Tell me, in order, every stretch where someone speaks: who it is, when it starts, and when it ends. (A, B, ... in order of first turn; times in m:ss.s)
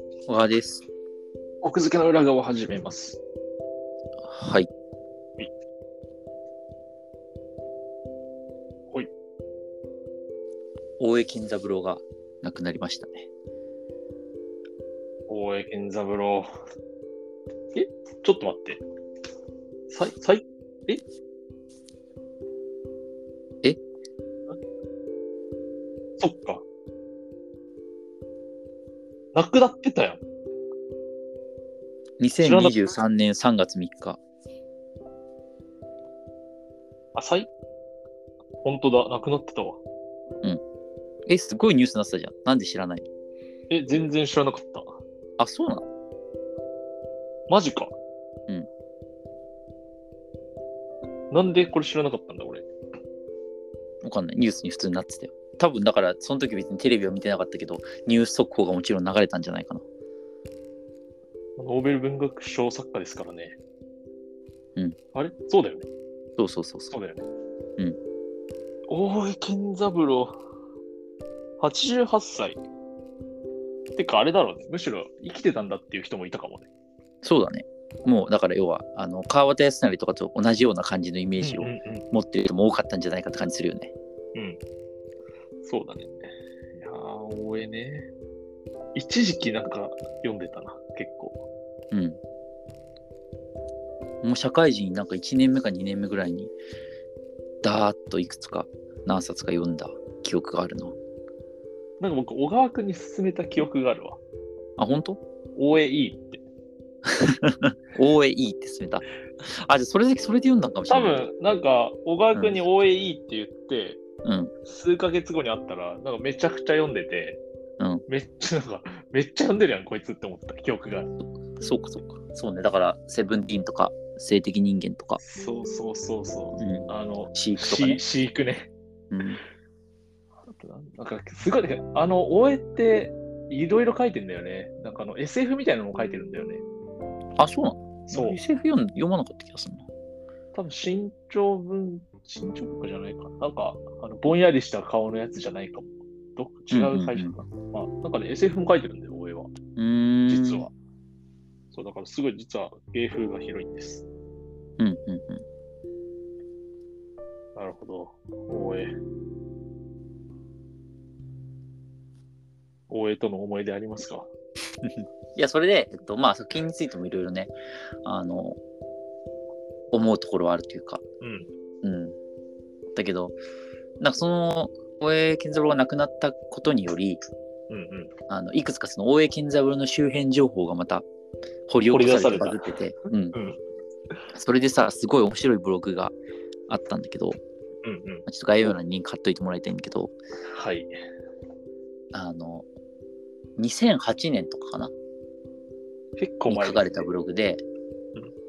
0:00.3-0:00.8 A
0:01.6-0:03.2 B
0:04.2-0:04.7 A
0:11.0-0:13.3 A
0:15.3-0:16.5 B
0:17.7-0:18.8 B
0:19.9-0:21.0 B
0:26.2-0:26.6 B
0:29.3-0:30.2 B
0:32.2-0:34.2 A
0:32.4-0:32.9 B
0:37.1-0:37.5 B
0:38.6-0:39.8 B
0:41.3-0:43.1 A
0:43.7-0:44.9 B
0:45.4-0:45.9 A
0:47.5-0:47.9 B
0:51.3-0:52.7 B
0:54.0-0:59.8 A
1:01.6-1:03.6 B
1:05.1-1:05.9 B
1:06.4-1:07.0 A
1:06.9-1:07.2 B
1:08.9-1:10.4 B
1:11.6-1:12.6 B
1:14.0-1:16.7 B
1:17.2-1:23.9 A
1:21.4-1:22.1 B
1:24.3-1:24.6 B
1:25.6-1:28.1 B
1:28.9-1:31.4 B
1:31.9-1:32.2 A
1:34.2-1:36.5 A
1:37.6-1:41.0 A
1:42.0-1:44.2 B
1:44.8-1:45.2 A
1:45.6-1:46.4 B
1:47.0-1:51.2 A
1:50.9-1:54.0 B
1:52.3-1:52.6 A
1:54.2-1:54.5 A
1:54.7-1:57.4 B
1:57.8-1:58.0 A
1:58.1-2:01.1 B
2:01.6-2:05.2 A
2:05.2-2:08.7 B
2:06.6-2:08.0 A
2:09.1-2:09.4 A
2:10.5-2:16.6 B
2:17.4-2:19.9 A
2:18.1-2:18.4 B
2:20.5-2:29.5 B
2:26.7-2:27.4 A
2:29.8-2:30.7 A
2:30.3-2:30.7 B
2:31.7-2:34.0 B
2:34.8-2:35.4 A
2:37.6-2:38.9 B
2:42.9-2:44.3 B
2:44.8-2:47.5 A
2:48.0-2:48.6 A
2:49.9-2:51.0 A
2:51.2-2:51.5 B
2:51.8-2:52.2 A
2:52.9-2:53.3 A
2:54.0-2:57.2 A
2:57.7-2:58.1 B
2:58.3-3:01.0 A
3:01.7-3:03.4 A
3:01.9-3:02.6 B
3:03.3-3:03.6 B
3:04.3-3:06.1 A
3:06.7-3:07.4 A
3:07.8-3:08.2 B
3:08.3-3:10.1 A
3:10.5-3:10.9 B
3:12.1-3:12.6 A
3:13.6-3:14.9 A
3:16.2-3:16.9 B
3:16.5-3:17.6 A